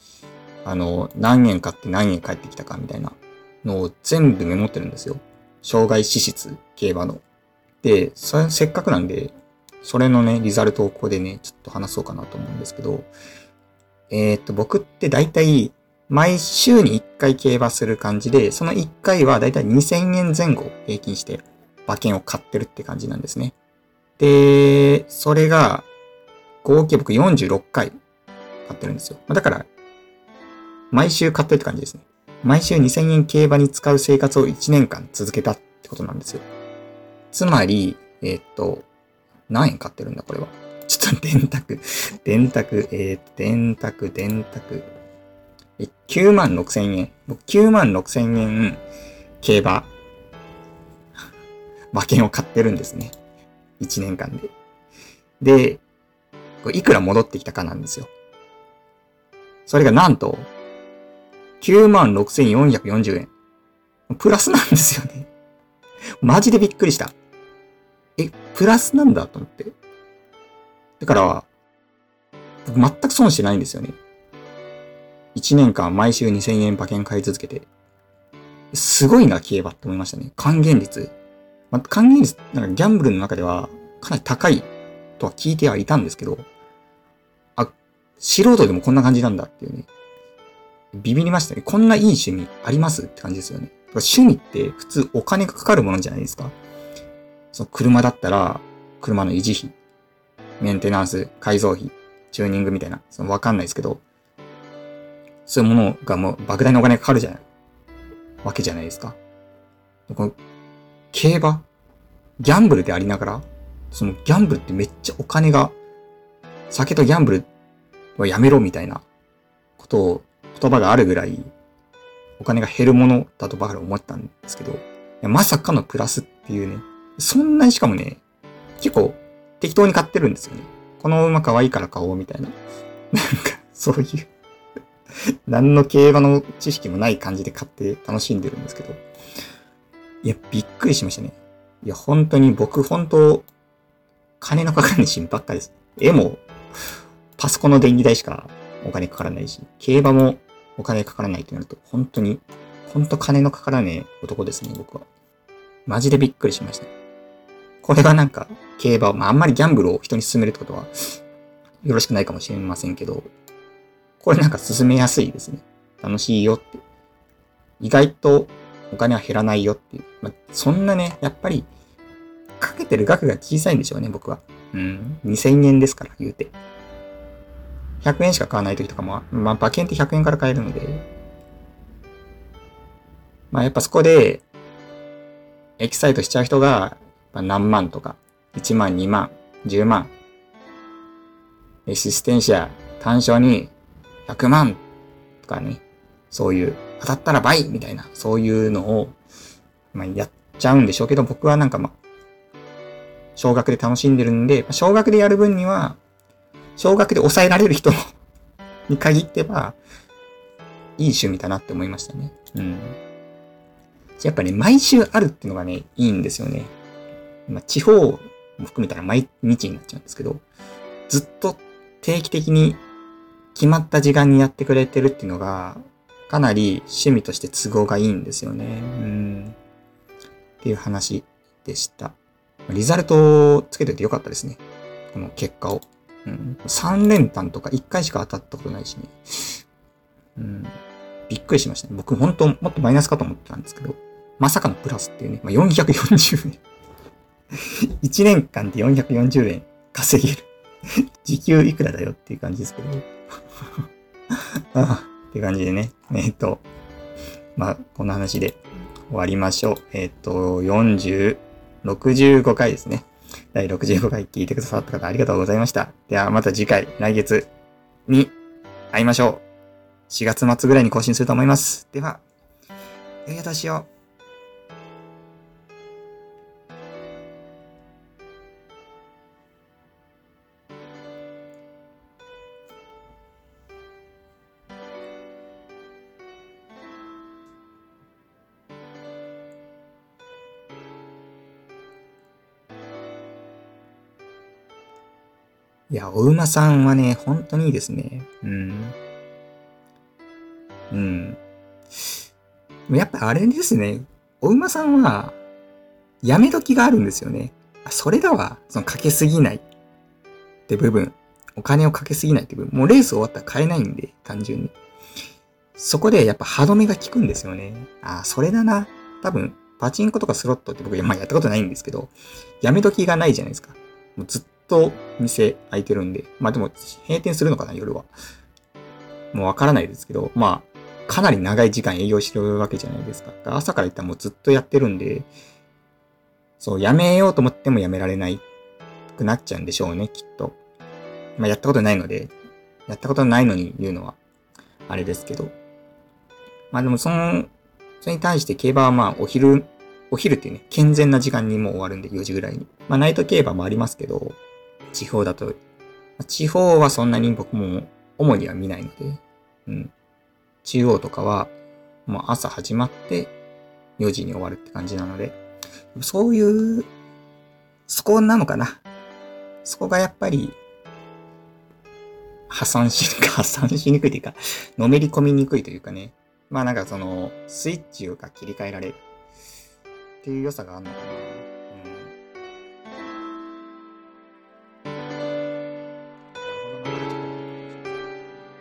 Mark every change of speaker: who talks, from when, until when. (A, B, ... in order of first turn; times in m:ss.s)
0:00.6-0:07.2 A
0:07.8-0:13.1 A
0:14.1-0:23.6 A
0:24.2-0:25.9 A
0:26.6-0:27.9 A
0:28.7-0:29.7 A
0:30.9-0:36.4 A
0:37.3-0:38.9 A
0:39.5-0:44.9 A
0:45.8-0:48.8 A
0:49.4-0:49.9 A
0:51.9-0:53.2 A
0:53.8-0:54.5 A
0:55.4-0:55.8 A
0:56.6-0:58.1 A
0:59.7-1:00.5 A
1:01.6-1:03.3 A
1:04.1-1:05.3 A
1:06.2-1:07.2 A
1:08.2-1:09.7 A
1:11.0-1:11.5 A
1:12.6-1:14.0 A
1:15.4-1:17.7 A
1:18.7-1:21.1 A
1:21.7-1:26.5 A
1:27.6-1:29.9 A
1:30.9-1:36.5 A
1:37.5-1:39.8 A
1:40.6-1:44.0 A
1:45.5-1:47.4 A
1:48.4-1:49.2 A
1:50.1-1:50.4 A
1:51.1-1:51.7 A
1:52.4-1:55.8 A
1:56.7-1:57.5 A
1:58.2-1:59.0 A
1:59.8-2:01.5 A
2:02.4-2:08.2 A
2:08.8-2:12.6 A
2:13.1-2:14.3 A
2:15.5-2:19.0 A
2:20.2-2:23.5 A
2:24.4-2:26.4 A
2:27.4-2:35.1 A
2:35.9-2:36.9 A
2:37.8-2:41.2 A
2:41.8-2:43.3 A
2:44.2-2:46.8 A
2:47.8-2:51.7 A
2:52.6-2:56.5 A
2:58.0-3:01.1 A
3:03.5-3:04.4 A
3:05.8-3:10.1 A
3:11.9-3:13.7 A
3:14.3-3:14.8 A
3:15.4-3:19.2 A
3:19.9-3:22.0 A
3:23.4-3:26.0 A
3:26.8-3:28.0 A
3:28.9-3:29.8 A
3:31.0-3:33.0 A
3:34.2-3:36.7 A
3:37.5-3:40.4 A
3:41.1-3:42.8 A
3:43.6-3:49.6 A
3:50.6-3:52.2 A
3:52.7-3:54.6 A
3:55.1-3:59.6 A
4:00.4-4:00.8 A
4:01.3-4:06.6 A
4:07.6-4:13.1 A
4:14.3-4:16.6 A
4:17.6-4:18.6 A
4:19.1-4:27.5 A
4:28.1-4:28.4 A
4:28.9-4:29.4 A
4:30.1-4:32.2 A
4:33.3-4:33.9 A
4:55.9-4:59.0 A
5:00.9-5:01.4 A
5:02.9-5:05.4 A
5:06.2-5:09.6 A
5:10.7-5:14.7 A
5:15.8-5:28.1 A
5:29.3-5:35.3 A
5:36.6-5:38.4 A
5:39.1-5:40.6 A
5:41.4-5:42.3 A
5:42.9-5:44.2 A
5:44.9-5:45.5 A
5:46.7-5:47.5 A
5:48.0-5:54.4 A
5:54.9-5:55.6 A
5:56.2-5:59.9 A
6:00.6-6:01.5 A
6:02.1-6:03.3 A
6:04.0-6:05.4 A
6:06.0-6:06.9 A
6:07.9-6:08.8 A
6:09.6-6:10.6 A
6:12.5-6:19.0 A
6:20.2-6:22.1 A
6:26.4-6:28.2 A